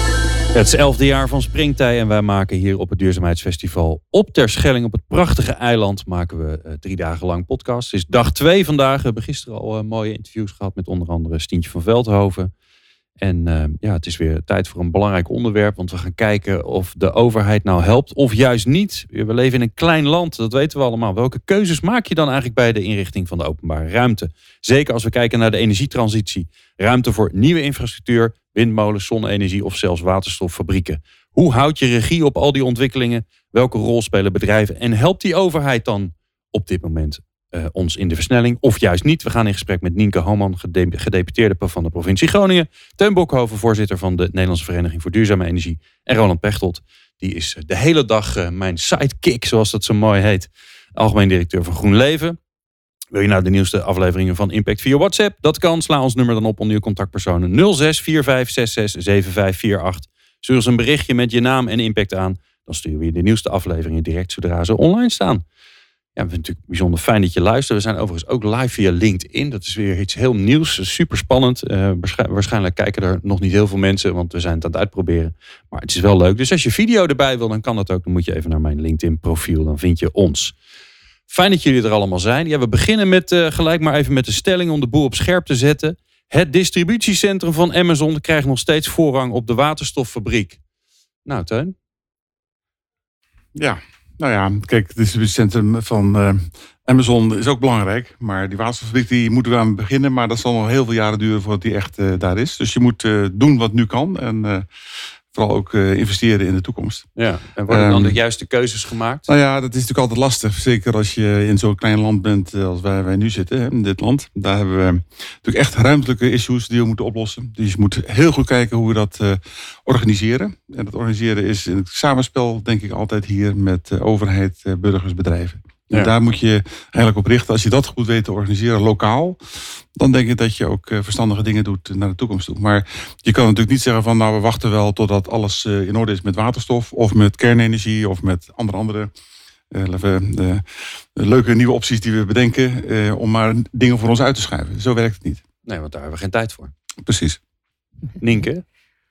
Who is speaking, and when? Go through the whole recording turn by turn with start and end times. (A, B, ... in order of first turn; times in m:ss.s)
0:00.5-0:12.5 A
0:13.2-0:52.4 A
0:53.1-1:05.4 A
1:06.2-1:20.5 A
1:21.3-1:30.6 A
1:31.3-1:31.8 A
1:33.6-1:44.7 B
1:45.3-1:47.1 B
1:47.2-1:49.3 A
1:47.7-1:48.2 B
1:49.3-2:09.4 B
2:10.0-2:19.1 B
2:19.7-2:20.6 B
2:21.2-2:25.4 B
2:25.6-2:26.7 A
2:27.0-2:27.4 B
2:28.2-2:28.6 A